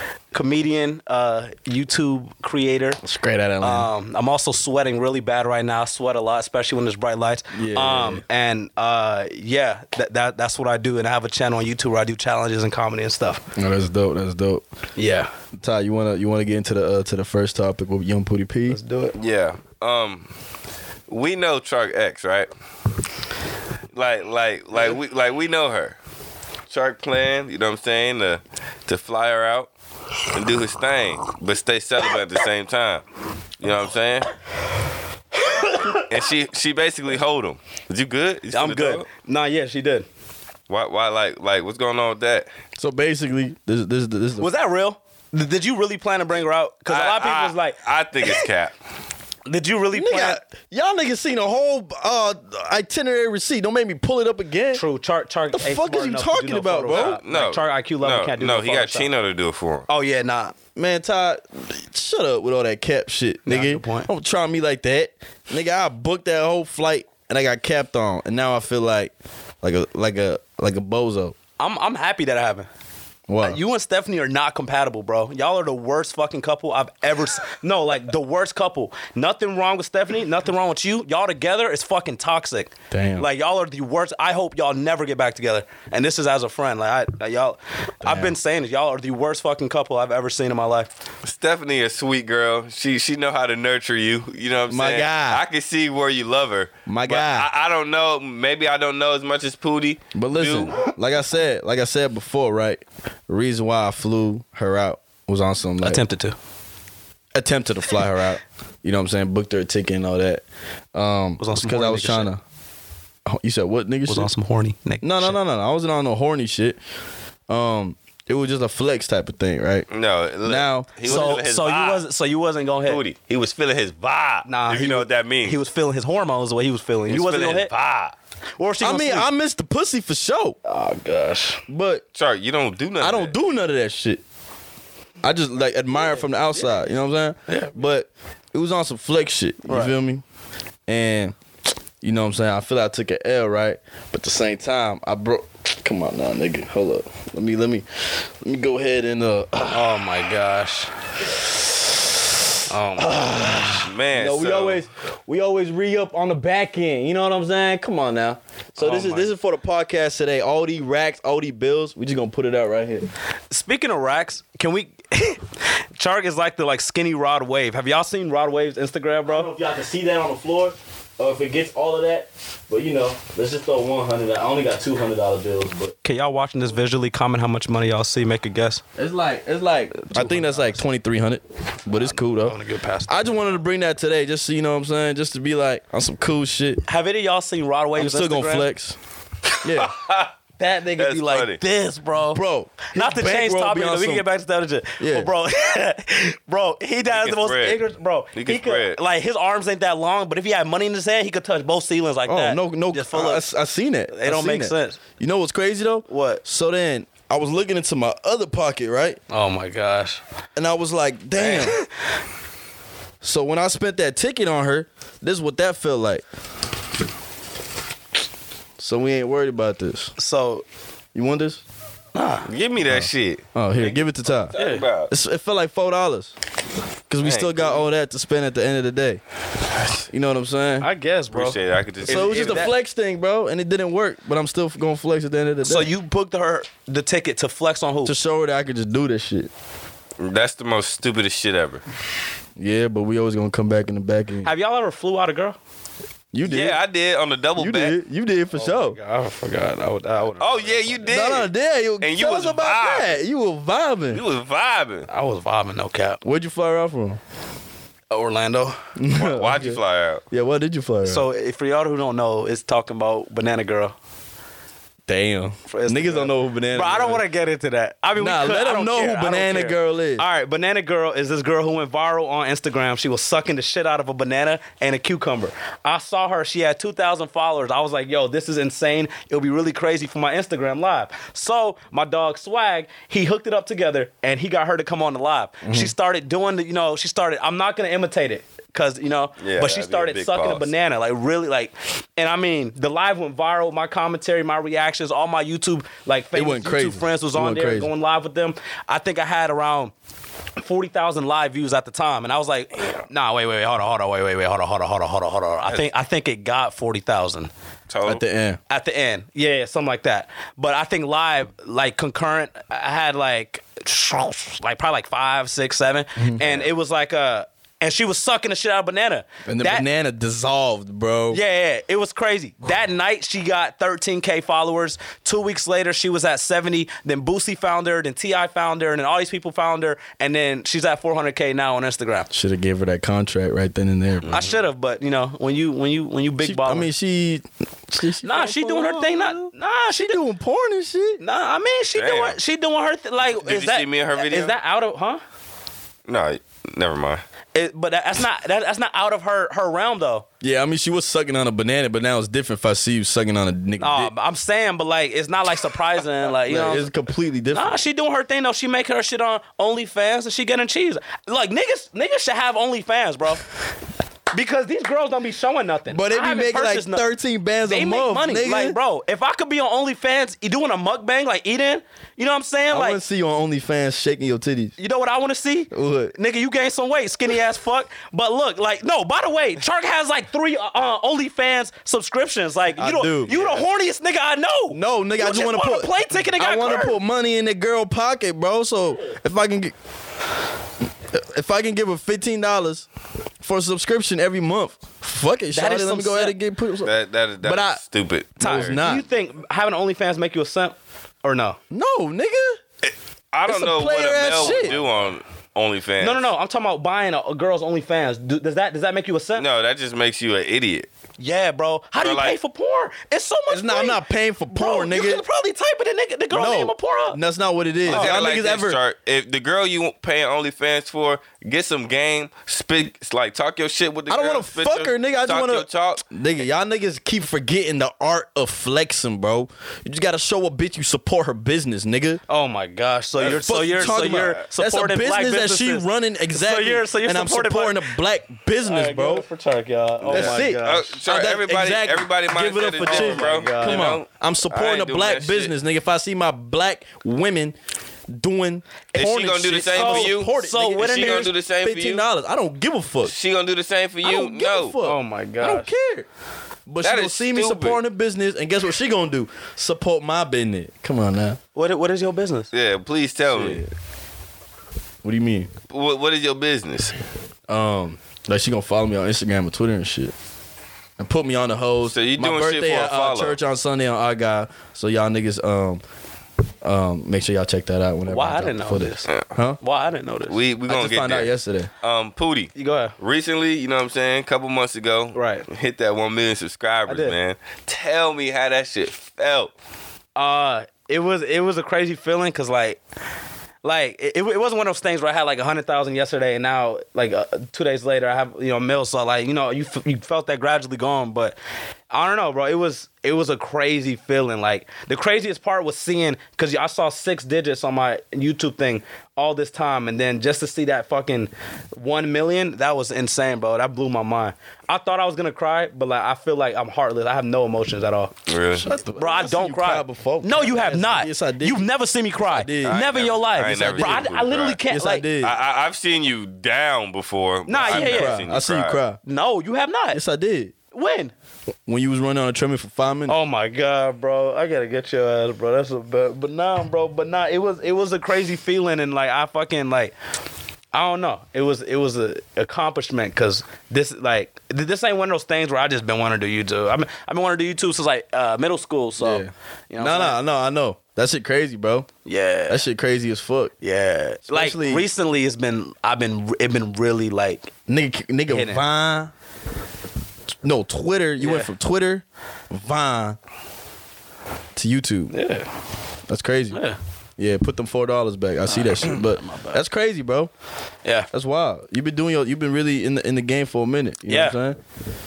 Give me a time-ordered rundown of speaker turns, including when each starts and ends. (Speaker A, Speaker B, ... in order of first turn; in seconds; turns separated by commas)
Speaker A: 0.3-3.0, Speaker B: 3.0-3.9, Speaker A: 3.6-13.4, Speaker B: 7.5-8.2, Speaker B: 13.5-14.6, Speaker A: 14.9-15.3, Speaker B: 15.6-18.8, Speaker A: 18.7-19.2, Speaker C: 19.2-20.3, Speaker C: 21.1-22.5, Speaker C: 23.9-25.9, Speaker C: 26.7-29.7, Speaker C: 30.2-33.0, Speaker C: 33.6-34.3, Speaker A: 35.4-36.0, Speaker C: 36.0-39.0, Speaker A: 38.5-40.0, Speaker C: 40.7-42.5, Speaker B: 42.8-44.5, Speaker A: 44.4-47.8, Speaker C: 46.9-48.7, Speaker A: 49.5-50.4, Speaker B: 49.9-54.8, Speaker A: 54.7-59.1, Speaker B: 55.5-57.2, Speaker C: 56.9-59.9, Speaker A: 59.9-60.5, Speaker B: 60.8-71.3, Speaker A: 63.4-64.1, Speaker A: 71.6-72.7, Speaker B: 73.3-73.6, Speaker A: 73.4-90.9, Speaker B: 82.9-83.3, Speaker B: 88.0-88.3, Speaker C: 91.2-100.8, Speaker B: 94.7-95.4, Speaker B: 96.9-97.5, Speaker B: 100.1-106.0, Speaker A: 105.8-106.3, Speaker B: 107.3-112.4, Speaker A: 111.4-112.3, Speaker B: 113.2-114.3, Speaker A: 114.1-115.4, Speaker B: 115.0-116.8, Speaker B: 117.5-119.9, Speaker C: 119.9-122.0, Speaker B: 120.4-121.3, Speaker A: 121.0-123.0, Speaker C: 122.8-125.6, Speaker A: 124.4-127.7, Speaker C: 127.1-128.1, Speaker A: 128.6-129.3, Speaker B: 128.8-130.6, Speaker A: 130.6-131.6, Speaker B: 131.7-132.0, Speaker C: 132.1-133.3, Speaker B: 133.0-134.2, Speaker B: 135.2-140.2, Speaker A: 137.5-137.8, Speaker A: 139.7-139.9, Speaker B: 140.9-141.4, Speaker B: 142.0-150.0, Speaker A: 149.7-150.9, Speaker A: 152.7-153.5, Speaker B: 152.9-163.1, Speaker C: 153.6-154.8, Speaker A: 158.8-159.3, Speaker A: 163.5-165.4, Speaker A: 165.9-169.5, Speaker B: 169.2-175.9, Speaker A: 176.0-178.8, Speaker B: 178.9-182.6, Speaker A: 180.0-180.8, Speaker A: 181.9-183.3, Speaker B: 183.1-186.8, Speaker A: 186.8-188.7, Speaker B: 187.9-189.0, Speaker B: 189.6-189.9, Speaker C: 189.8-190.3, Speaker A: 190.6-192.4, Speaker C: 191.0-191.6, Speaker B: 192.3-194.2, Speaker A: 192.9-203.4, Speaker B: 195.0-195.3, Speaker C: 197.1-197.8, Speaker C: 198.3-199.0, Speaker B: 202.2-209.2, Speaker A: 204.1-205.0, Speaker A: 206.1-206.4, Speaker A: 209.3-210.2, Speaker B: 210.6-211.8, Speaker A: 211.4-211.9, Speaker B: 213.2-216.2, Speaker B: 218.8-220.1, Speaker A: 220.2-220.6, Speaker B: 221.1-221.6, Speaker A: 222.1-222.5, Speaker C: 222.4-225.1, Speaker B: 222.9-224.5, Speaker A: 224.5-224.8, Speaker B: 225.1-226.3, Speaker B: 227.1-229.2, Speaker C: 227.2-227.8, Speaker B: 230.1-230.9, Speaker A: 230.8-232.7, Speaker C: 231.3-232.7, Speaker B: 232.0-235.9, Speaker A: 235.6-238.1, Speaker B: 238.0-239.5, Speaker C: 240.2-241.8, Speaker B: 242.6-244.5, Speaker A: 244.4-245.6, Speaker B: 246.3-246.8, Speaker C: 246.4-247.9, Speaker B: 247.6-249.0, Speaker A: 248.5-251.1, Speaker C: 250.4-253.2, Speaker B: 251.1-254.2, Speaker C: 254.1-255.1, Speaker A: 255.1-256.2, Speaker B: 256.2-257.2, Speaker A: 258.1-258.9, Speaker B: 258.9-261.2, Speaker C: 259.1-260.2, Speaker A: 261.0-263.9, Speaker B: 265.1-267.2, Speaker A: 265.7-299.9, Speaker B: 268.2-270.2, Speaker B: 285.6-285.9, Speaker C: 289.4-290.7, Speaker B: 296.3-297.9, Speaker A: 300.6-307.5, Speaker C: 307.9-308.2, Speaker B: 308.1-308.6, Speaker A: 308.7-319.9, Speaker B: 316.2-316.4, Speaker B: 319.4-321.4, Speaker A: 321.3-332.3, Speaker B: 332.3-334.4, Speaker C: 334.2-334.6, Speaker A: 334.3-336.9, Speaker B: 336.4-341.2, Speaker A: 338.2-340.2, Speaker A: 341.2-345.2, Speaker C: 341.9-342.4, Speaker C: 343.3-344.5, Speaker C: 346.1-347.2, Speaker A: 347.5-350.2, Speaker B: 350.4-354.1, Speaker A: 353.8-356.9, Speaker B: 356.4-357.8, Speaker A: 357.5-363.4, Speaker A: 364.3-367.0, Speaker B: 365.9-368.8, Speaker A: 367.6-373.0, Speaker B: 372.7-374.7, Speaker A: 374.8-387.0, Speaker B: 375.7-376.1, Speaker B: 382.8-383.4, Speaker B: 384.7-389.7, Speaker B: 391.1-392.9, Speaker B: 393.4-397.8, Speaker A: 395.5-396.4, Speaker C: 396.8-398.8, Speaker B: 398.4-399.0, Speaker A: 398.4-401.6, Speaker B: 401.7-402.6, Speaker C: 402.8-406.3, Speaker B: 403.4-404.7, Speaker A: 404.4-405.0, Speaker A: 406.0-409.4, Speaker C: 409.4-410.9, Speaker A: 411.2-414.0, Speaker C: 412.0-412.4, Speaker B: 413.5-415.2, Speaker A: 414.5-417.2, Speaker B: 416.3-418.8, Speaker C: 417.9-426.0, Speaker A: 417.9-418.2, Speaker B: 424.1-432.2, Speaker A: 432.3-437.9, Speaker B: 433.2-439.2, Speaker C: 433.2-434.4, Speaker A: 438.6-441.0, Speaker C: 440.0-445.5, Speaker B: 440.1-447.6, Speaker A: 442.8-443.8, Speaker B: 448.1-453.1, Speaker C: 448.9-452.0, Speaker A: 449.7-451.3, Speaker C: 453.0-454.8, Speaker B: 454.0-456.1, Speaker A: 454.8-455.7, Speaker B: 456.7-461.4, Speaker C: 456.8-457.8, Speaker A: 461.5-462.5, Speaker C: 462.5-463.6, Speaker B: 463.3-463.7, Speaker B: 465.0-465.5, Speaker C: 465.7-466.9, Speaker B: 467.5-470.1, Speaker B: 471.0-475.8, Speaker C: 471.8-473.4, Speaker B: 476.6-479.6, Speaker A: 478.1-479.1, Speaker A: 479.6-480.4, Speaker C: 480.3-489.5, Speaker B: 480.7-481.7, Speaker A: 482.6-482.9, Speaker A: 485.1-485.4, Speaker A: 486.9-487.1, Speaker A: 490.1-492.8, Speaker A: 493.6-501.4, Speaker A: 501.9-518.1, Speaker C: 518.3-518.7, Speaker B: 518.6-521.7, Speaker A: 518.9-525.1, Speaker B: 522.2-522.8, Speaker C: 522.6-524.6, Speaker B: 523.6-524.1, Speaker B: 524.7-525.3, Speaker C: 525.2-528.8, Speaker A: 527.5-528.2, Speaker B: 527.6-529.0, Speaker A: 529.0-530.0, Speaker B: 529.9-530.5, Speaker A: 530.7-531.1, Speaker B: 531.7-533.1, Speaker A: 533.1-539.9, Speaker A: 540.7-550.2, Speaker B: 549.0-551.9, Speaker A: 552.0-552.6, Speaker B: 552.5-553.5, Speaker A: 553.6-557.5, Speaker B: 554.2-554.9, Speaker B: 557.7-559.1, Speaker A: 558.3-558.6, Speaker B: 560.4-563.2, Speaker A: 561.2-561.5, Speaker B: 564.5-565.1, Speaker A: 565.1-565.5, Speaker B: 566.1-566.6, Speaker A: 566.5-566.8, Speaker B: 567.2-570.3, Speaker A: 568.5-569.6, Speaker B: 571.1-574.6, Speaker A: 574.1-574.4